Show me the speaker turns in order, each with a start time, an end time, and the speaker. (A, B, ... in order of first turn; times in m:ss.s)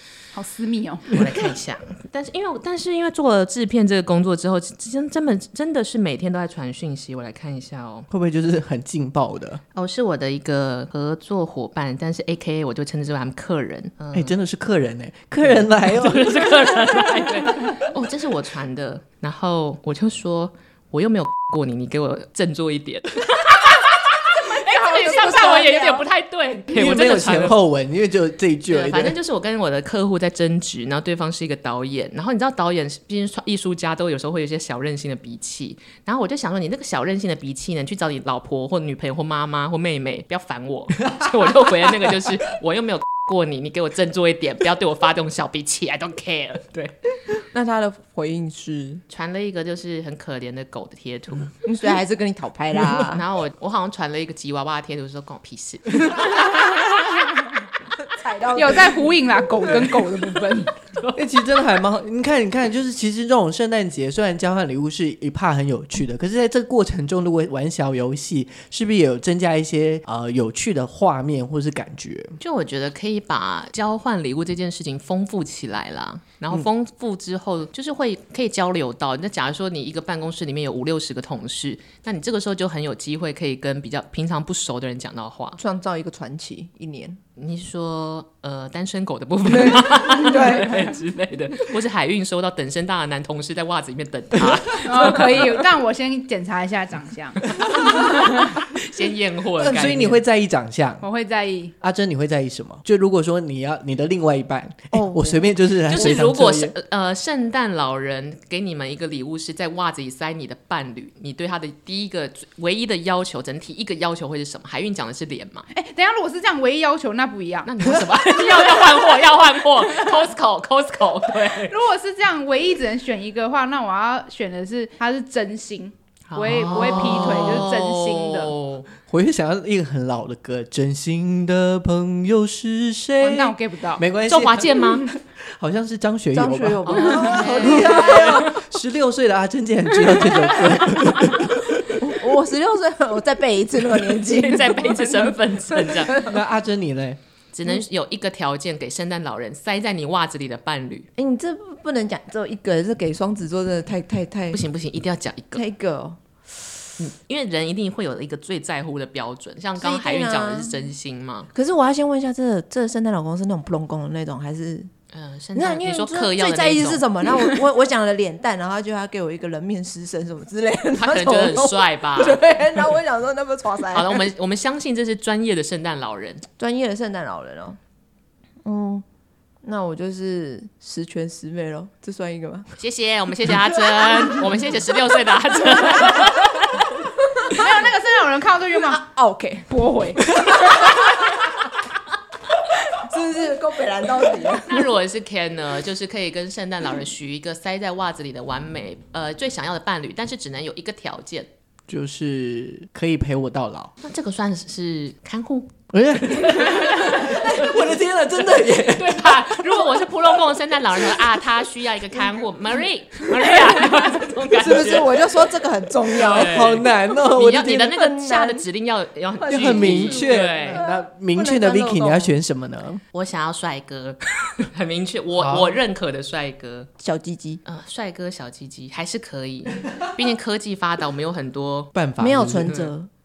0:00.3-0:01.1 A
0:01.1-0:08.1 B
0:08.1-0:09.6 C
0:09.8-0:14.4 B
0:14.1-0:16.7 C
0:15.4-0:27.6 B
0:25.2-0:25.9 A
0:25.3-0:25.8 D
0:26.7-0:29.2 C
0:28.7-0:46.9 B
0:47.4-0:49.0 D
0:49.1-0:51.5 B
0:51.6-0:53.2 D
0:53.0-0:56.6 B
0:58.0-0:59.0 D
0:58.6-1:00.7 A
1:01.2-1:12.4 C
1:12.4-1:25.6 B
1:25.6-1:27.2 D
1:27.4-1:35.5 B
1:29.5-1:30.8 D
1:34.8-1:38.6 A
1:37.6-1:40.2 B
1:39.6-1:41.1 C
1:41.0-1:41.7 A
1:41.8-1:46.7 C
1:44.9-1:45.6 D
1:45.8-1:55.7 B
1:55.7-1:57.7 A
1:57.7-2:01.8 B
2:01.6-2:08.6 A
2:06.3-2:08.9 B
2:09.1-2:22.0 C
2:13.2-2:14.0 A
2:14.3-2:15.1 B
2:16.3-2:18.6 D
2:16.9-2:18.5 B
2:21.8-2:25.2 D
2:24.2-2:26.2 B
2:25.7-2:26.4 D
2:26.1-2:27.2 C
2:27.5-2:31.1 B
2:31.2-2:34.6 D
2:34.5-2:35.6 B
2:35.6-2:36.2 D
2:37.0-2:41.5 B
2:39.8-2:40.8 D
2:41.5-2:44.9 D
2:45.1-2:47.1 B
2:45.6-2:54.2 D
2:51.0-2:52.5 B
2:53.9-2:56.4 B
2:56.6-2:57.8 D
2:58.6-2:59.0 D
2:59.6-3:02.7 D
3:02.8-3:06.9 B
3:07.5-3:09.0 A
3:08.9-3:09.7 D
3:09.7-3:10.4 A
3:10.5-3:11.2 D
3:12.9-3:14.9 D
3:14.7-3:21.5 B
3:21.9-3:23.9 C
3:24.0-3:25.7 B
3:25.9-3:30.1 C
3:26.5-3:27.6 B
3:28.7-3:35.5 B
3:33.5-3:34.0 D
3:34.5-3:36.9 D
3:36.1-3:40.8 B
3:36.2-3:38.0 C
3:38.0-3:38.6 D
3:39.4-3:42.3 D
3:39.5-3:43.0 C
3:43.1-3:46.9 B
3:45.4-3:45.8 C
3:47.0-3:47.6 D
3:47.6-3:51.9 B
3:51.9-3:52.8 C
3:52.2-3:53.1 D
3:52.6-3:52.9 B